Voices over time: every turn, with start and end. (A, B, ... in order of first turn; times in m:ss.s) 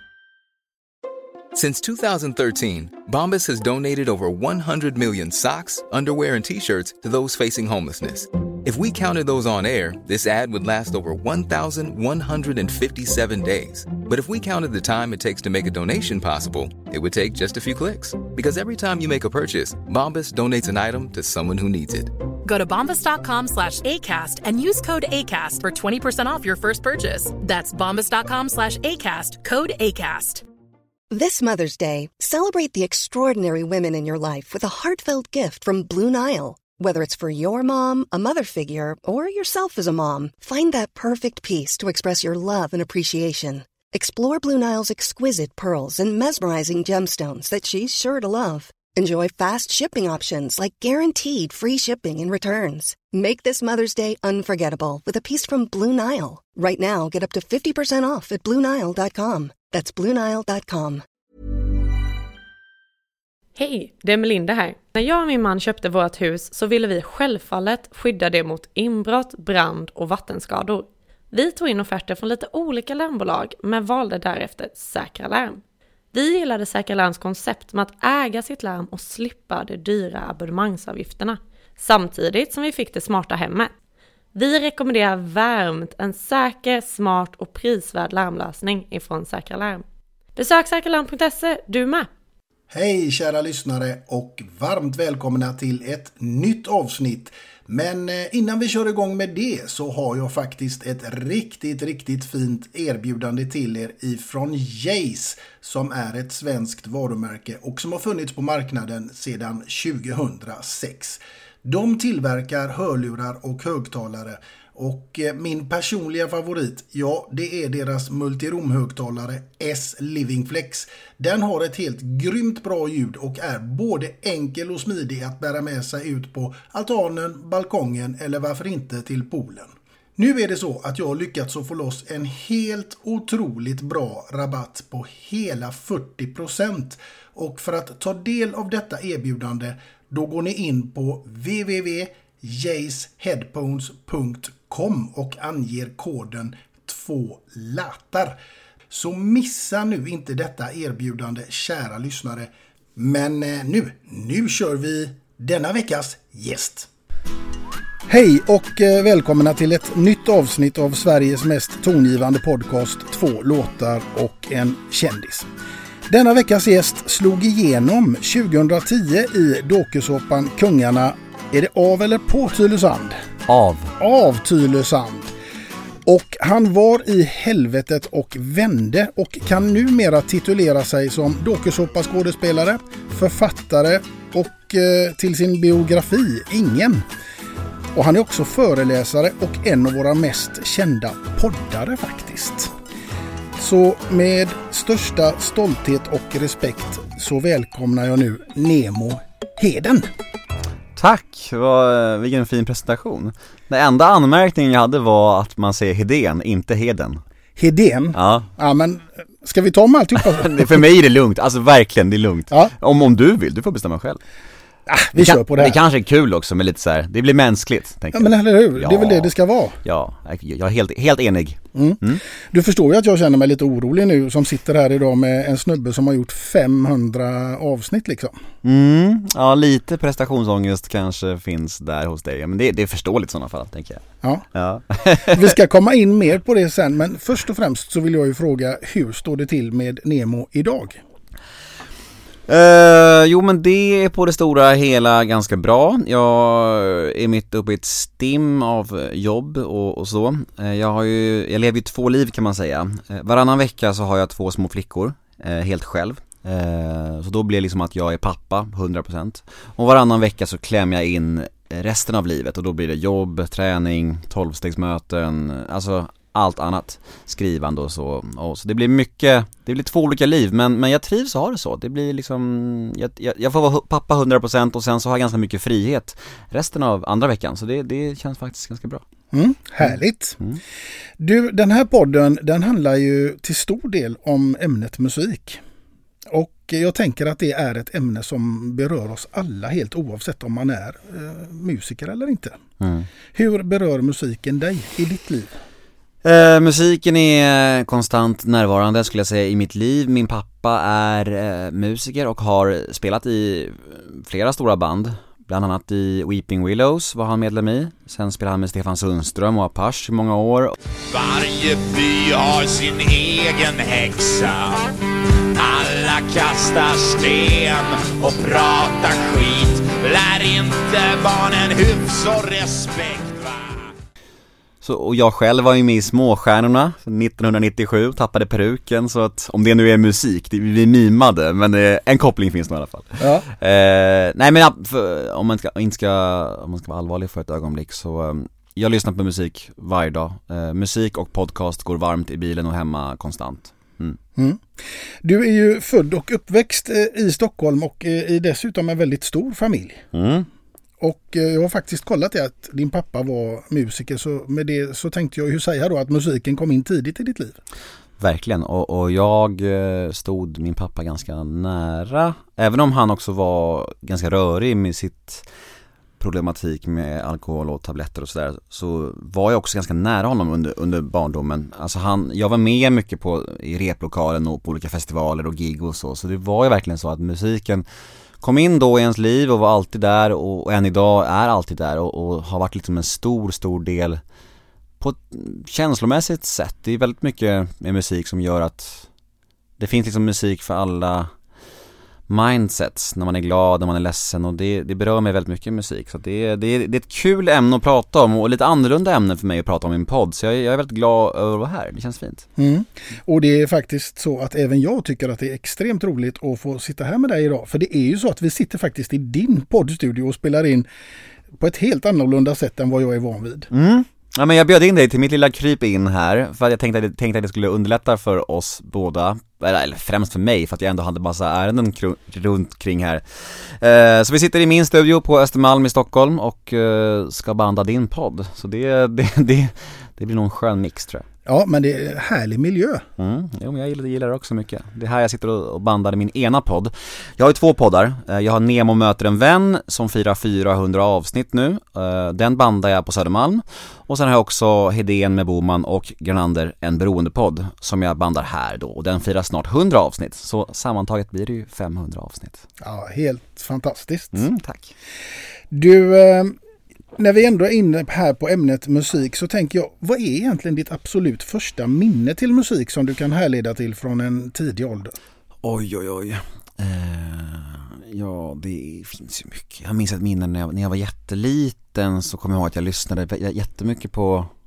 0:01.5-0:22.1 A
0:22.4-0:30.4 B
0:31.1-1:01.0 C
1:03.6-1:15.6 D
1:16.1-1:23.7 D
1:24.3-1:29.8 D
1:30.4-1:32.1 D
1:32.7-2:36.9 E
2:38.1-2:45.5 E
2:46.1-2:53.2 E
2:53.5-2:53.9 F
2:54.0-2:55.3 E
2:56.0-3:07.1 E
3:07.9-3:12.7 E
3:13.6-3:20.1 E
3:21.0-3:27.2 F
3:27.6-3:30.8 E
3:28.1-3:28.5 F
3:30.2-3:34.2 F
3:34.9-3:35.8 E
3:35.2-3:42.2 F
3:38.1-3:39.8 E
3:41.7-3:48.4 E
3:48.6-3:54.0 F
3:54.5-3:55.5 F
3:55.3-4:01.0 E
4:02.5-4:39.0 F
4:39.3-4:40.4 E
4:39.8-4:40.6 F
4:41.2-4:45.6 E
4:46.3-4:52.6 E
4:52.8-4:53.1 F
4:53.3-4:55.6 E
4:56.2-5:10.8 F
5:11.1-5:14.8 G
5:15.6-5:23.9 G
5:24.8-5:44.2 F
5:33.2-5:33.4 E
5:44.4-5:50.0 E
5:50.1-5:50.5 F
5:51.0-5:57.6 E
5:58.2-6:05.5 F
6:06.2-6:17.8 F
6:18.4-6:24.2 F
6:25.0-6:29.1 F
6:29.8-6:31.3 F
6:32.3-6:42.5 F
6:42.6-6:50.9 E
6:51.6-6:53.7 E
6:53.7-7:11.2 F
7:11.4-7:13.0 E
7:13.2-7:32.6 F
7:32.8-7:34.4 E
7:34.3-7:34.9 F
7:35.7-7:36.6 E
7:37.2-7:45.1 E
7:45.6-7:54.5 F